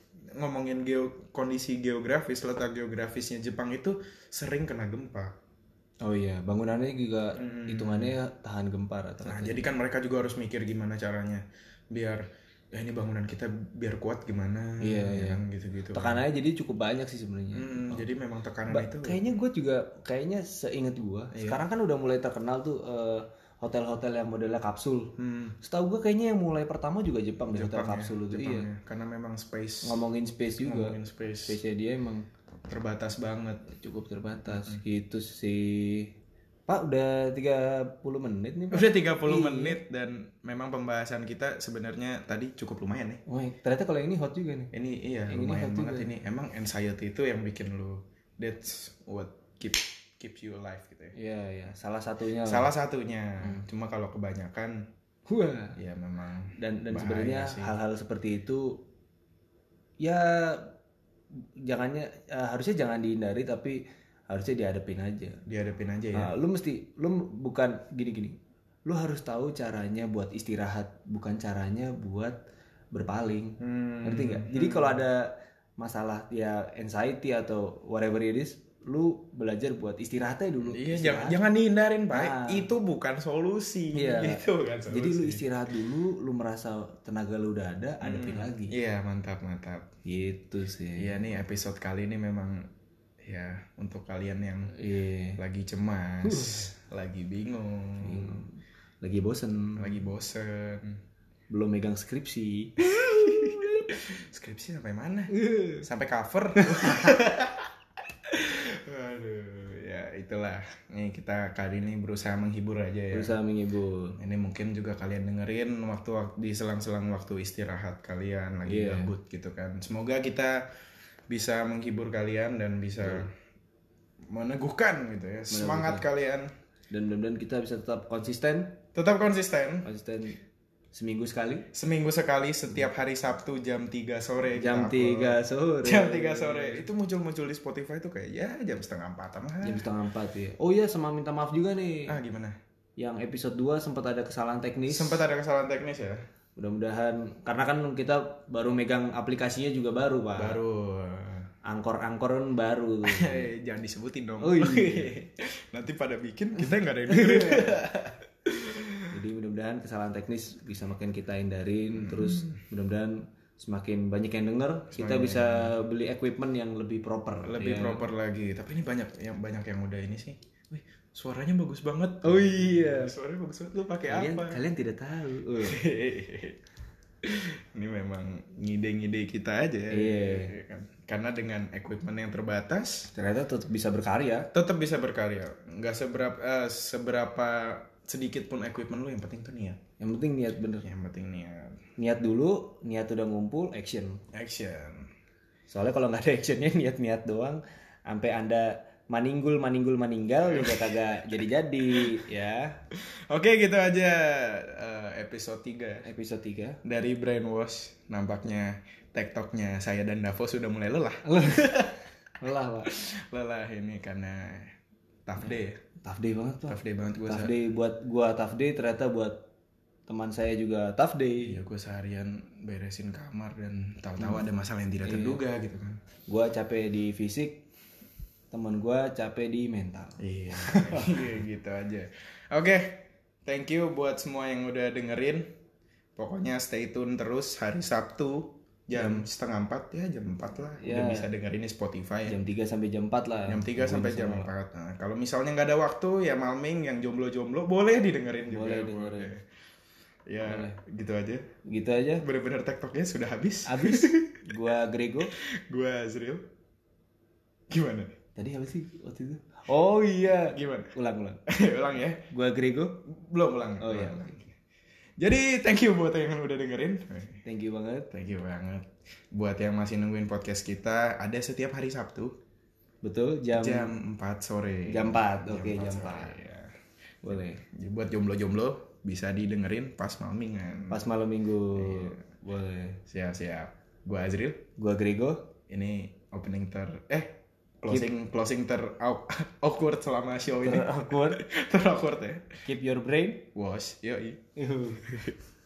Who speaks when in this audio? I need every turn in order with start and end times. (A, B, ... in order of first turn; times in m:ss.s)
0:00.3-0:05.3 A
0:06.0-0:09.6 B
0:07.4-0:08.1 A
0:09.2-0:16.2 A
0:14.8-0:15.4 B
0:15.9-0:18.1 B
0:17.5-0:19.2 A
0:18.7-0:28.7 B
0:21.3-0:21.6 A
0:25.2-0:25.6 A
0:27.5-0:30.0 A
0:29.8-0:32.2 B
0:30.6-0:31.6 A
0:32.7-0:33.7 A
0:33.7-0:36.1 B
0:34.5-0:34.8 A
0:36.7-0:39.8 B
0:38.7-0:43.2 A
0:43.3-0:44.7 B
0:44.7-0:51.1 A
0:45.3-0:46.1 B
0:51.1-0:52.7 B
0:52.4-0:54.8 A
0:55.3-0:55.8 B
0:55.8-0:57.7 A
0:56.6-0:58.8 B
1:00.0-1:00.7 B
1:01.6-1:05.4 B
1:05.4-1:06.3 A
1:06.1-1:12.4 B
1:12.9-1:21.4 B
1:13.6-1:15.0 A
1:20.6-1:25.4 A
1:22.1-1:22.7 B
1:23.9-1:28.7 B
1:28.0-1:29.9 A
1:30.0-1:31.1 B
1:31.0-1:32.7 A
1:33.2-1:34.7 A
1:34.7-1:35.4 B
1:35.4-1:38.5 A
1:36.2-1:36.7 B
1:38.0-1:40.0 B
1:39.8-1:41.0 A
1:41.5-1:43.9 B
1:42.9-1:47.7 A
1:45.3-1:45.8 B
1:46.6-1:47.1 B
1:48.3-1:53.3 A
1:53.1-1:54.2 B
1:54.2-2:00.7 A
1:58.6-1:59.1 B
2:01.3-2:03.3 A
2:04.3-2:06.5 A
2:05.5-2:06.0 B
2:06.9-2:08.8 B
2:08.9-2:09.9 A
2:09.8-2:10.4 B
2:10.9-2:11.6 B
2:11.7-2:19.8 A
2:14.5-2:16.8 B
2:19.6-2:22.1 B
2:22.1-2:22.6 A
2:23.0-2:25.2 B
2:24.9-2:26.2 A
2:26.6-2:30.6 B
2:30.4-2:31.5 A
2:31.6-2:33.5 B
2:33.0-2:39.1 A
2:34.4-2:35.1 B
2:36.6-2:37.9 B
2:39.1-2:48.0 B
2:41.9-2:42.6 A
2:44.9-2:45.8 A
2:47.4-2:54.6 A
2:52.2-2:53.1 B
2:54.1-2:55.8 B
2:55.6-2:56.6 A
2:57.2-3:03.1 A
2:59.9-3:00.5 B
3:03.1-3:04.5 B
3:04.5-3:09.8 A
3:10.0-3:10.8 B
3:10.8-3:11.8 A
3:12.0-3:14.2 B
3:14.3-3:15.1 A
3:15.7-3:22.8 B
3:20.5-3:21.0 A
3:22.0-3:22.2 A
3:23.0-3:26.0 A
3:26.0-3:26.8 B
3:26.8-3:32.0 A
3:31.2-3:32.9 B
3:32.9-3:34.7 A
3:35.2-3:35.8 A
3:36.0-3:39.4 B
3:36.7-3:37.5 A
3:40.1-3:41.6 B
3:41.4-3:46.0 A
3:44.2-3:44.4 B
3:45.0-3:45.4 B
3:46.3-3:47.6 B
3:48.5-3:51.2 B
3:50.2-3:55.4 A
3:56.2-4:02.4 A
3:58.9-3:59.2 B
4:00.8-4:01.2 B
4:02.2-4:04.5 B
4:03.5-4:09.4 A
4:08.5-4:09.3 B
4:10.3-4:11.5 A
4:10.4-4:10.8 B
4:11.6-4:12.2 B
4:12.2-4:14.5 A
4:13.6-4:15.3 B
4:15.4-4:16.4 A
4:17.7-4:18.1 A
4:18.4-4:21.4 B
4:20.4-4:20.9 A
4:21.5-4:22.2 A
4:22.3-4:23.0 B
4:23.1-4:24.5 A
4:23.8-4:24.3 B
4:25.2-4:27.4 A
4:27.4-4:28.1 B
4:28.1-4:32.3 A
4:33.0-4:33.9 B
4:33.5-4:36.7 A
4:34.9-4:36.4 B
4:37.2-4:37.6 B
4:37.3-4:41.0 A
4:40.9-4:43.0 B
4:41.7-4:42.2 A
4:43.1-4:44.6 A
4:44.8-4:45.4 B
4:45.7-4:52.5 A
4:50.6-4:51.4 B
4:52.6-4:53.5 B
4:53.5-4:54.4 A
4:54.6-4:55.3 B